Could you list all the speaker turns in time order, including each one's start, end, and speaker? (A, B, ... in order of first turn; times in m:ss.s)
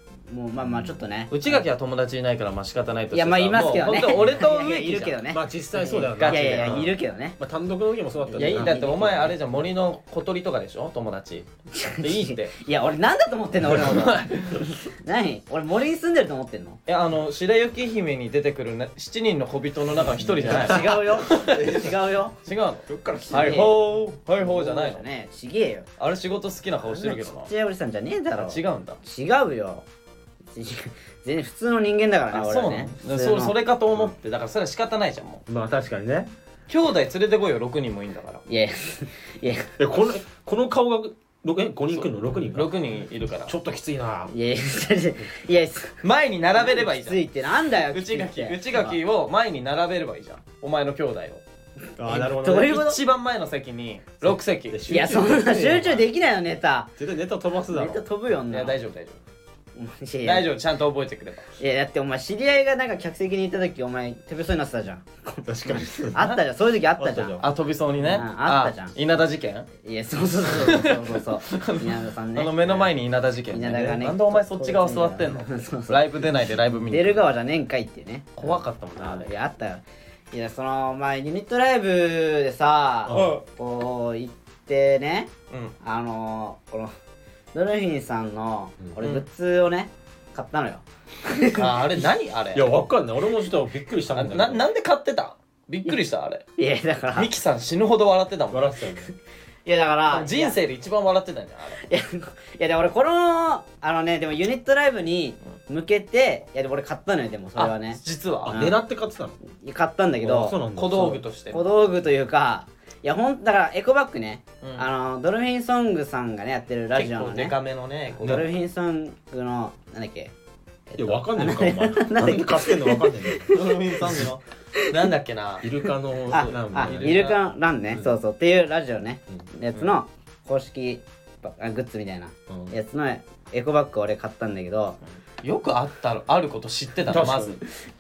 0:00.3-0:01.6 A
0:01.3-0:05.2 B
0:03.1-0:07.4 A
0:05.3-0:08.8 C
0:05.9-0:06.9 B
0:08.3-0:09.3 A
0:08.3-0:11.5 B
0:11.7-0:16.8 A
0:12.0-0:12.5 B
0:13.7-0:14.7 B
0:16.9-0:21.9 B
0:20.2-0:21.9 C
0:20.4-0:22.4 A
0:22.4-0:25.0 B
0:22.9-0:23.7 C
0:23.3-0:23.8 A
0:24.4-0:25.9 A
0:26.0-0:27.5 B
0:26.9-0:29.8 A
0:28.3-0:29.0 B
0:30.5-0:33.5 A
0:32.3-0:35.4 B
0:35.5-0:36.3 C
0:36.7-0:38.4 B
0:38.5-0:39.7 A
0:39.8-0:42.7 C
0:41.9-0:43.5 B
0:43.4-0:44.3 C
0:44.3-0:46.0 A
0:46.0-0:47.2 B
0:46.6-0:49.0 A
0:47.9-0:51.4 B
0:52.0-0:52.8 C
0:52.1-0:53.0 A
0:52.2-0:54.8 B
0:54.2-0:56.0 C
0:54.9-0:56.9 A
0:57.0-0:58.0 C
0:57.7-0:58.8 A
0:58.5-0:59.2 B
0:59.8-1:00.5 A
1:00.2-1:01.4 B
1:01.6-1:07.4 A
1:05.4-1:06.2 C
1:07.0-1:07.5 C
1:07.4-1:09.7 B
1:08.0-1:08.9 A
1:09.8-1:12.9 A
1:10.5-1:17.2 B
1:13.5-1:16.0 A
1:16.9-1:26.9 A
1:18.4-1:19.3 B
1:23.1-1:23.4 C
1:23.1-1:23.4 B
1:25.5-1:25.7 B
1:27.5-1:31.8 A
1:31.5-1:32.7 B
1:32.5-1:34.6 C
1:34.1-1:36.4 B
1:36.6-1:37.3 A
1:37.1-1:38.7 B
1:38.5-1:39.1 C
1:39.6-1:40.6 A
1:40.1-1:41.8 B
1:41.8-1:48.8 A
1:47.6-1:48.6 B
1:48.4-1:49.4 C
1:49.5-1:57.5 A
1:50.2-1:51.2 C
1:50.8-1:51.6 B
1:56.9-1:58.5 B
1:58.2-2:00.3 A
2:00.9-2:04.2 A
2:01.0-2:03.5 C
2:03.5-2:05.7 B
2:05.6-2:07.3 C
2:06.3-2:07.4 B
2:06.3-2:15.0 A
2:12.5-2:12.7 C
2:15.4-2:17.6 B
2:17.1-2:17.6 C